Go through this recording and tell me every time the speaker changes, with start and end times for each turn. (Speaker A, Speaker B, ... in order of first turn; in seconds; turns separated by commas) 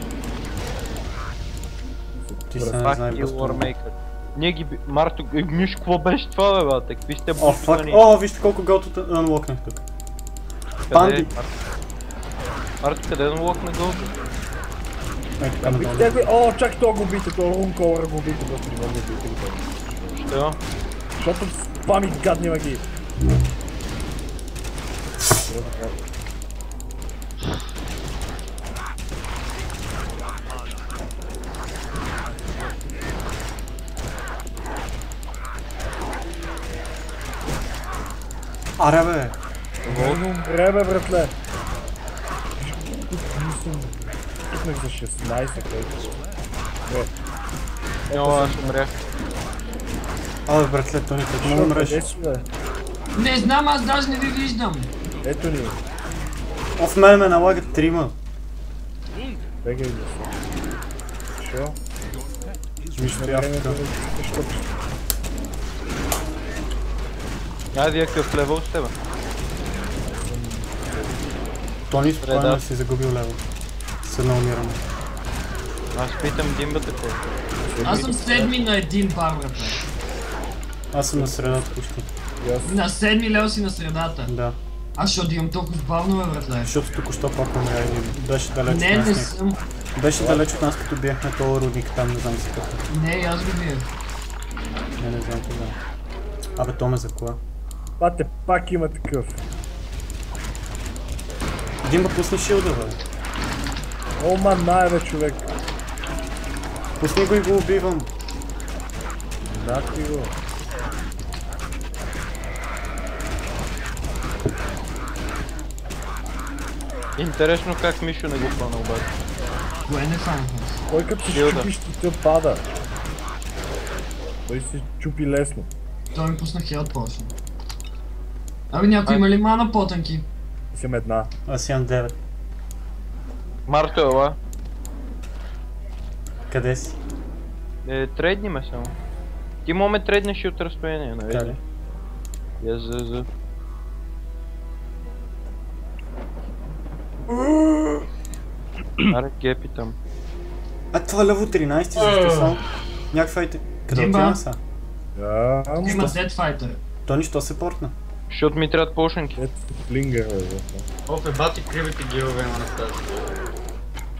Speaker A: 2.2-2.8, Speaker B: 2.5-3.7, Speaker C: 2.8-8.0, Speaker B: 7.4-9.8, Speaker B: 10.9-11.3, Speaker C: 10.9-11.5, Speaker C: 12.8-14.1, Speaker B: 15.4-16.3, Speaker A: 15.6-20.2, Speaker C: 20.1-20.6, Speaker A: 21.2-22.8, Speaker A: 25.4-26.0, Speaker B: 38.8-39.4, Speaker A: 39.8-41.3, Speaker A: 42.6-46.1, Speaker A: 46.9-47.1, Speaker A: 48.1-48.8, Speaker C: 48.1-49.0, Speaker B: 50.5-52.1, Speaker A: 51.4-52.4, Speaker D: 53.1-54.9, Speaker A: 55.2-55.8, Speaker B: 56.8-58.1, Speaker A: 59.6-60.3, Speaker A: 61.3-61.8, Speaker B: 62.9-63.8, Speaker A: 63.0-64.8, Speaker C: 67.7-68.9, Speaker A: 70.0-71.3, Speaker B: 71.9-73.4, Speaker C: 72.2-72.6, Speaker B: 74.0-74.8, Speaker C: 75.9-77.2, Speaker A: 77.6-78.6, Speaker D: 77.8-79.8, Speaker B: 80.9-82.1, Speaker A: 81.1-81.7, Speaker A: 82.4-82.8, Speaker D: 82.6-84.3, Speaker B: 84.3-84.6, Speaker D: 85.0-86.7, Speaker B: 86.6-89.3, Speaker D: 88.7-89.6, Speaker B: 89.9-92.8, Speaker A: 90.2-90.6, Speaker D: 92.9-93.8, Speaker B: 95.0-95.8, Speaker B: 96.6-97.4, Speaker A: 98.0-99.4, Speaker B: 101.8-103.0, Speaker A: 104.2-105.5, Speaker B: 107.0-108.1, Speaker A: 109.4-110.3, Speaker C: 117.2-119.1, Speaker D: 119.9-120.8, Speaker A: 120.9-122.6, Speaker C: 121.2-121.7, Speaker A: 124.4-125.7, Speaker D: 126.1-127.3, Speaker D: 128.7-130.3, Speaker A: 130.7-131.3, Speaker B: 131.5-132.2, Speaker C: 133.7-134.4, Speaker B: 136.5-137.0, Speaker C: 137.8-138.9, Speaker C: 139.6-141.6, Speaker B: 141.3-141.6, Speaker C: 142.6-143.3, Speaker C: 149.1-150.0, Speaker B: 150.9-154.6, Speaker E: 151.9-152.6, Speaker D: 153.9-154.4, Speaker A: 155.1-156.2, Speaker D: 155.8-156.8, Speaker B: 155.8-156.2, Speaker B: 157.1-157.9, Speaker C: 158.3-159.4, Speaker A: 159.3-160.8, Speaker E: 161.1-163.2